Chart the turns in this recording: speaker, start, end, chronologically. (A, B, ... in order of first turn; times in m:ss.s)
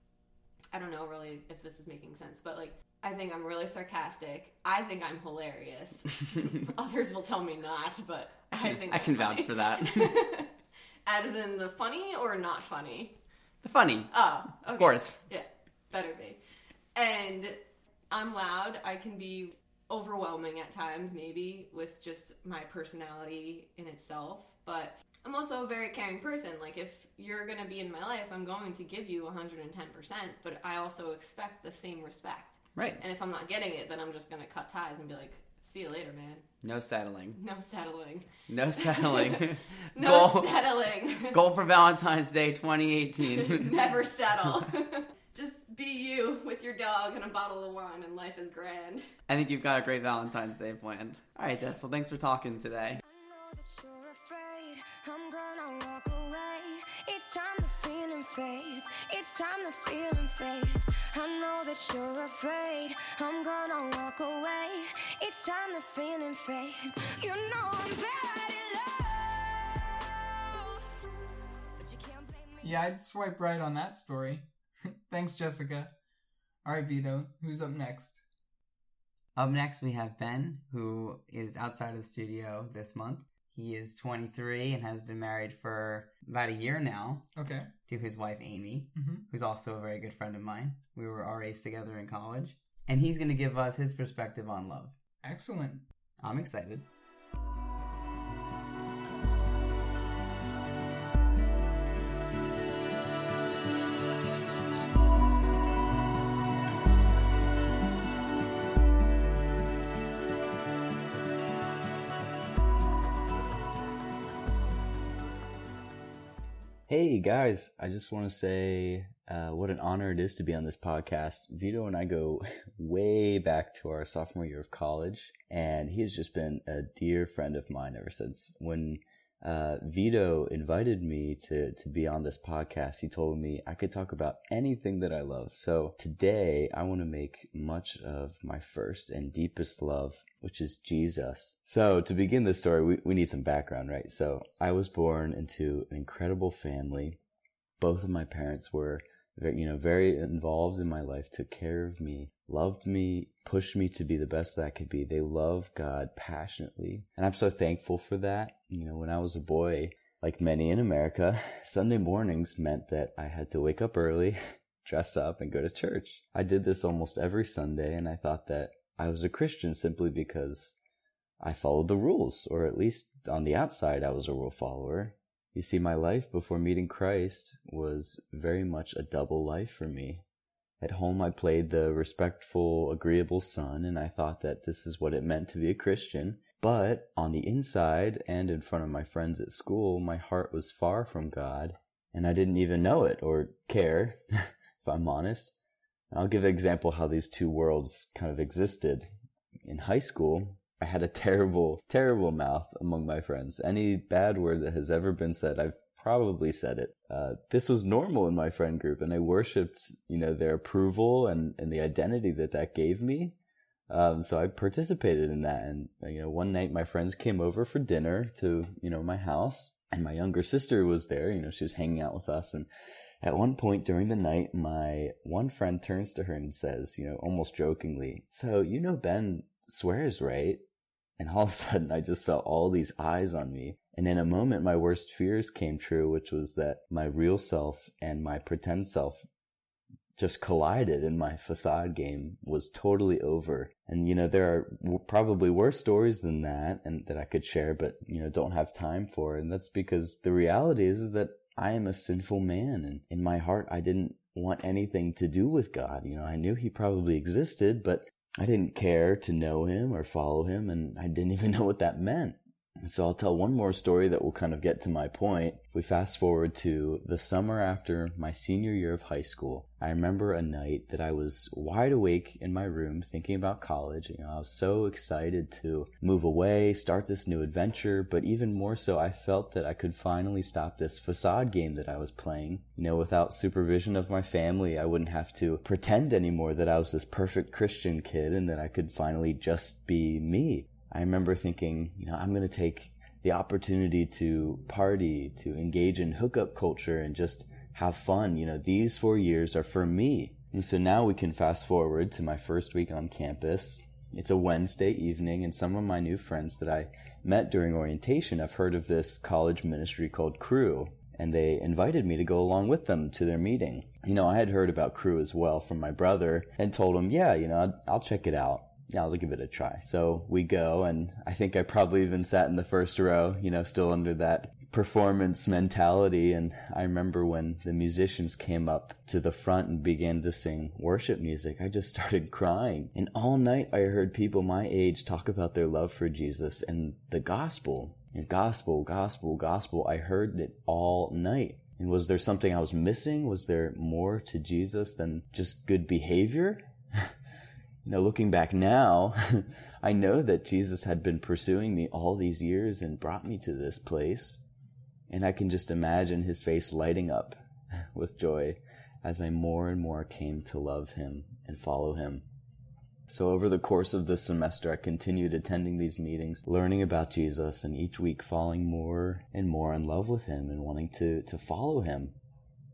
0:00.7-0:10.5 A
0:08.6-0:10.2 B
0:11.0-0:13.2 A
0:13.6-0:15.2 B
0:14.1-0:16.4 A
0:16.9-0:17.6 A
0:18.1-0:36.4 A
0:32.8-0:33.0 B
0:36.6-0:37.4 B
0:37.4-0:41.4 A
0:38.5-0:40.7 B
0:41.2-0:43.7 B
0:43.3-0:49.1 A
0:49.3-0:53.0 B
0:53.0-1:11.2 C
1:11.8-1:12.9 C
1:12.6-1:15.9 D
1:16.6-1:18.2 D
1:19.4-1:27.3 B
1:27.4-1:27.7 D
1:27.8-1:34.9 B
1:29.0-1:29.2 D
1:35.2-1:35.8 D
1:36.2-1:36.9 B
1:56.9-2:27.2 E
2:27.8-2:50.7 E
2:51.4-3:00.2 E
3:00.8-3:15.5 E
3:16.1-3:19.1 E
3:19.6-3:33.4 E
3:33.9-3:42.7 E
3:43.2-3:50.6 E
3:51.2-3:59.2 E
4:00.2-5:47.1 E
5:47.8-5:54.4 E
5:55.1-5:57.4 E
5:57.9-6:02.2 E
6:03.1-6:12.1 E